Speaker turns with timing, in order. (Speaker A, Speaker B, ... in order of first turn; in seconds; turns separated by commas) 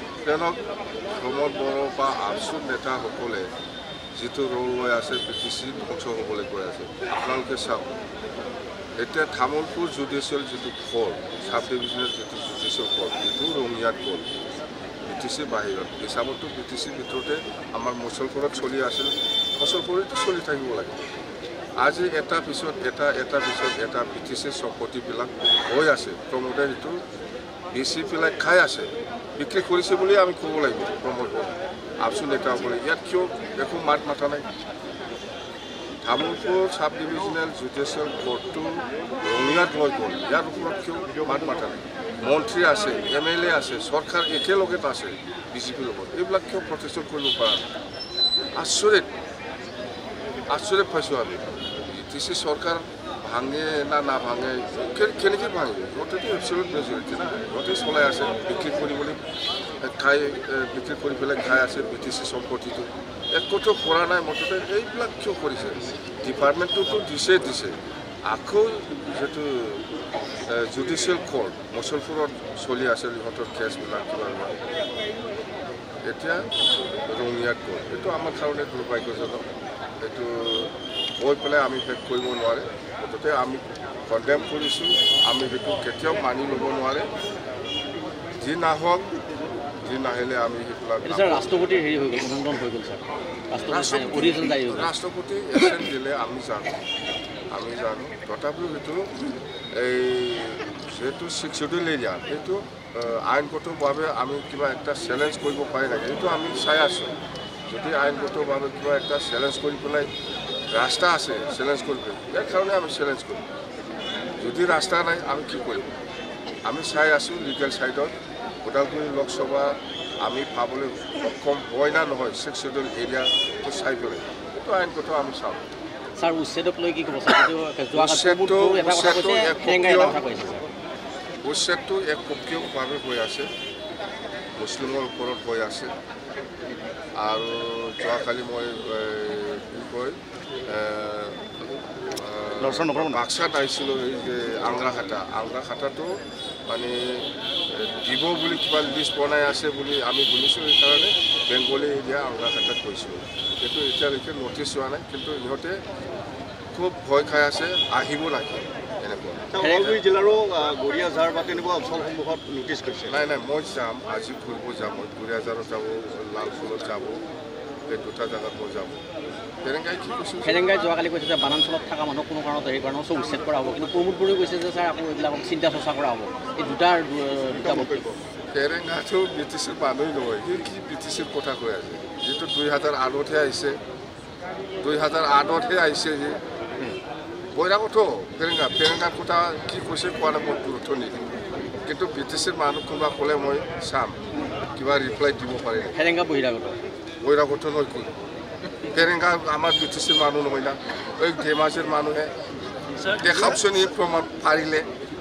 Speaker A: 0.2-0.6, Speaker A: 1.1-3.5, Speaker A: 4.2-7.9, Speaker A: 9.0-14.3, Speaker A: 15.0-21.1, Speaker A: 21.8-27.0, Speaker A: 27.7-34.5, Speaker A: 36.0-47.7, Speaker A: 48.5-49.1, Speaker A: 50.5-59.2, Speaker A: 59.8-69.8, Speaker A: 70.5-74.6, Speaker A: 76.0-76.5, Speaker A: 77.0-79.5, Speaker A: 80.0-87.1, Speaker A: 88.4-89.1, Speaker A: 89.8-91.5, Speaker B: 91.0-94.9, Speaker A: 93.7-96.8, Speaker A: 97.5-99.1, Speaker A: 99.7-107.1, Speaker A: 107.7-110.1, Speaker A: 110.7-113.5, Speaker A: 114.4-115.9, Speaker A: 116.6-125.6, Speaker B: 126.2-130.6, Speaker A: 128.0-130.2, Speaker A: 131.4-133.5, Speaker A: 134.6-135.9, Speaker A: 137.2-141.5, Speaker A: 142.0-155.8, Speaker B: 142.6-143.2, Speaker A: 156.7-159.5, Speaker C: 159.5-163.3, Speaker B: 159.6-160.0, Speaker A: 163.1-167.2, Speaker A: 167.9-169.0, Speaker A: 169.6-170.6, Speaker B: 170.4-178.1, Speaker C: 177.5-178.2, Speaker A: 178.5-183.8, Speaker A: 184.8-186.4, Speaker A: 187.5-191.3, Speaker A: 191.8-194.2, Speaker A: 194.7-196.0, Speaker B: 195.9-196.8, Speaker A: 197.2-198.1, Speaker A: 198.9-202.3, Speaker A: 203.0-204.9